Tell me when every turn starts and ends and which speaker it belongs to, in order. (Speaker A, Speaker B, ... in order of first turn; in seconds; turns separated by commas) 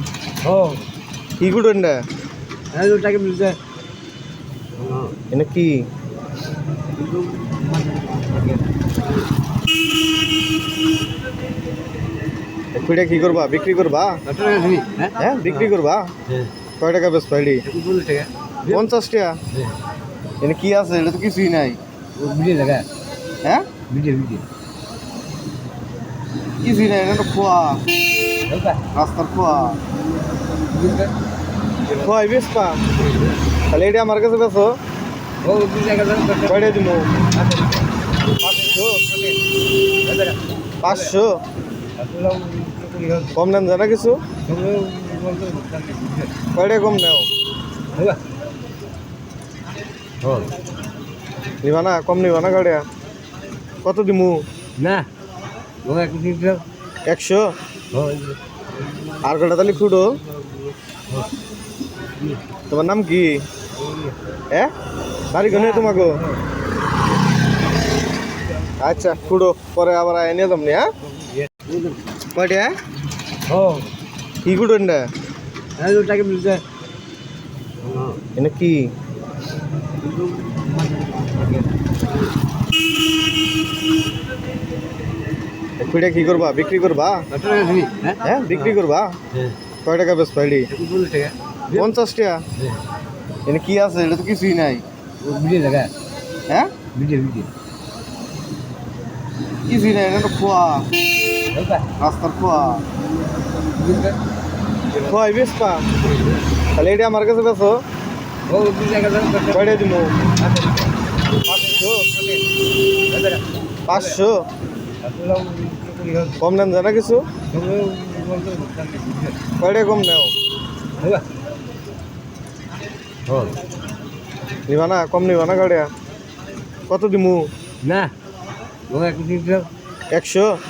Speaker A: 0.4-0.8, Speaker B: 1.4-2.0, Speaker A: 2.7-3.6, Speaker A: 4.8-5.1, Speaker B: 5.3-5.9, Speaker A: 7.0-9.2, Speaker B: 12.7-14.2, Speaker A: 14.2-15.7, Speaker B: 15.2-16.1, Speaker B: 16.8-17.6, Speaker A: 17.6-18.9, Speaker B: 18.7-19.4, Speaker B: 20.4-21.8, Speaker A: 22.2-22.9, Speaker A: 23.9-24.4, Speaker B: 26.6-27.8, Speaker A: 28.4-28.9, Speaker B: 28.9-29.8, Speaker A: 29.9-31.1, Speaker B: 31.9-32.8, Speaker A: 32.9-33.4, Speaker B: 33.7-34.8, Speaker A: 35.4-37.9, Speaker B: 36.5-37.1, Speaker B: 38.4-39.0, Speaker A: 40.1-41.1, Speaker B: 40.8-41.4, Speaker A: 42.0-43.4, Speaker B: 43.4-44.2, Speaker A: 44.5-46.3, Speaker B: 46.6-47.3, Speaker A: 47.9-48.2, Speaker A: 50.2-50.6, Speaker B: 51.6-52.8, Speaker B: 53.8-54.4, Speaker A: 54.8-55.1, Speaker A: 55.8-56.6, Speaker B: 57.1-57.5, Speaker A: 57.9-61.3, Speaker B: 59.2-60.2, Speaker B: 62.7-63.5, Speaker A: 63.7-64.2, Speaker B: 65.3-66.2, Speaker A: 65.5-66.4, Speaker A: 68.5-69.4, Speaker B: 68.8-70.9, Speaker A: 71.0-72.1, Speaker B: 72.3-72.7, Speaker A: 73.5-73.9, Speaker B: 74.5-75.0, Speaker A: 75.8-76.6, Speaker A: 77.8-78.2, Speaker B: 78.4-78.9, Speaker A: 80.0-81.7, Speaker B: 85.8-87.3, Speaker A: 87.3-88.7, Speaker B: 88.2-89.2, Speaker B: 89.8-90.7, Speaker A: 90.7-91.9, Speaker B: 91.7-92.4, Speaker A: 92.6-92.8, Speaker B: 93.5-94.8, Speaker A: 95.2-95.9, Speaker A: 97.0-97.5, Speaker B: 99.7-100.9, Speaker A: 101.5-101.9, Speaker B: 102.0-102.8, Speaker A: 103.2-104.2, Speaker B: 105.0-105.8, Speaker A: 106.0-106.4, Speaker B: 106.7-107.8, Speaker A: 108.5-111.0, Speaker B: 109.5-110.1, Speaker B: 111.5-112.1, Speaker A: 113.1-114.2, Speaker B: 113.9-114.5, Speaker A: 115.0-116.4, Speaker B: 116.4-117.3, Speaker A: 117.5-119.4, Speaker B: 119.6-120.3, Speaker A: 121.0-121.2, Speaker A: 123.3-123.6, Speaker B: 124.7-125.9, Speaker B: 126.9-127.5, Speaker A: 127.8-128.1, Speaker A: 128.9-129.7, Speaker B: 130.1-130.6